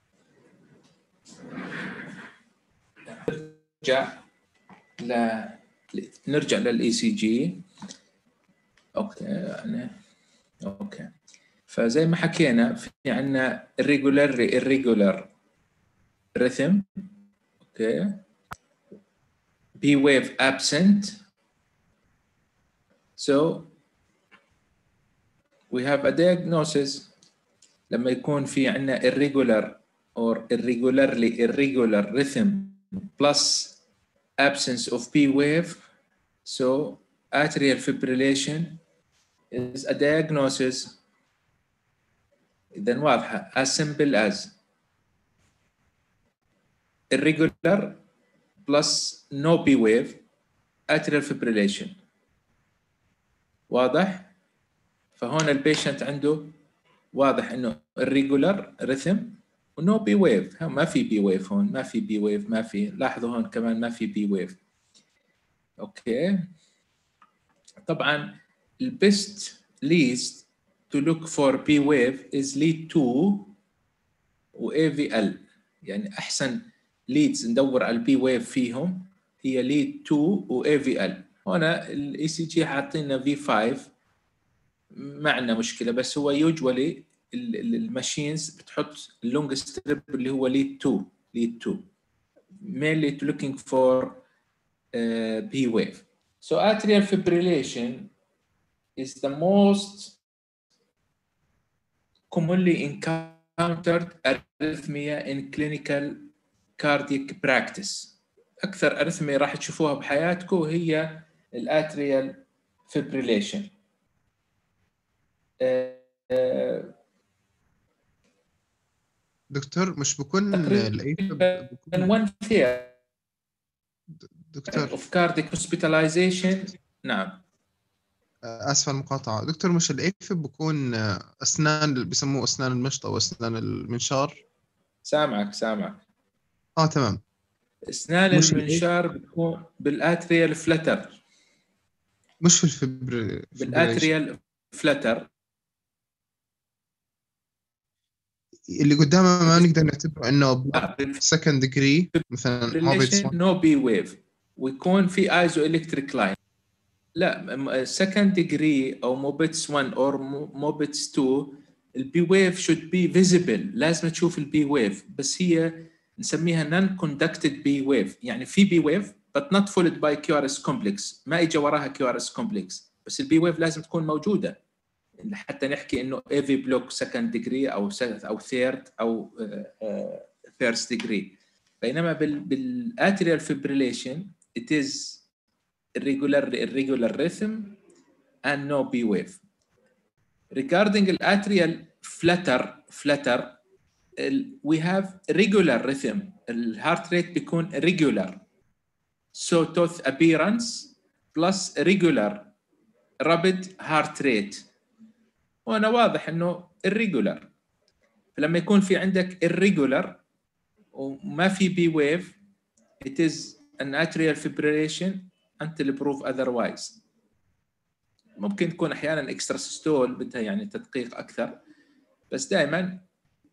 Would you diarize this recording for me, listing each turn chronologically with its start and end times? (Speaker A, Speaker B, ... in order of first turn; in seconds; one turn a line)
Speaker A: 3.1-4.1
Speaker A: 5.0-7.6
Speaker A: 9.0-9.9
Speaker A: 10.6-11.1
Speaker A: 11.7-15.3
Speaker A: 16.4-16.9
Speaker A: 17.7-18.2
Speaker A: 19.8-21.2
Speaker A: 23.2-23.7
Speaker A: 25.7-27.1
Speaker A: 27.9-33.8
Speaker A: 34.4-35.8
Speaker A: 36.5-38.8
Speaker A: 39.5-41.0
Speaker A: 42.7-44.5
Speaker A: 47.1-48.0
Speaker A: 48.6-50.2
Speaker A: 50.9-52.0
Speaker A: 53.7-54.3
Speaker A: 55.2-56.5
Speaker A: 57.1-64.6
Speaker A: 65.8-66.3
Speaker A: 67.9-73.5
Speaker A: 74.5-83.9
Speaker A: 84.9-91.8
Speaker A: 92.6-94.2
Speaker A: 94.9-98.1
Speaker A: 99.0-100.2
Speaker A: 102.3-113.7
Speaker A: 115.6-116.9
Speaker B: 119.5-122.1
Speaker A: 120.5-122.9
Speaker B: 124.4-124.9
Speaker A: 124.7-127.4
Speaker B: 128.4-134.4
Speaker A: 135.1-136.0
Speaker B: 136.8-137.2
Speaker A: 137.9-141.2
Speaker B: 138.3-138.8
Speaker B: 142.4-144.1
Speaker A: 143.6-145.2
Speaker B: 148.7-153.3
Speaker A: 150.7-151.2
Speaker A: 152.1-156.3
Speaker A: 157.2-174.6
Speaker A: 175.2-185.2
Speaker A: 186.0-187.8
Speaker A: 188.4-189.4
Speaker A: 190.5-193.6
Speaker A: 194.2-198.4
Speaker A: 199.3-202.5
Speaker A: 203.2-204.6
Speaker A: 205.7-207.5
Speaker A: 208.3-210.2
Speaker A: 210.9-212.3
Speaker A: 213.0-217.0
Speaker A: 218.4-221.5
Speaker A: 222.3-223.0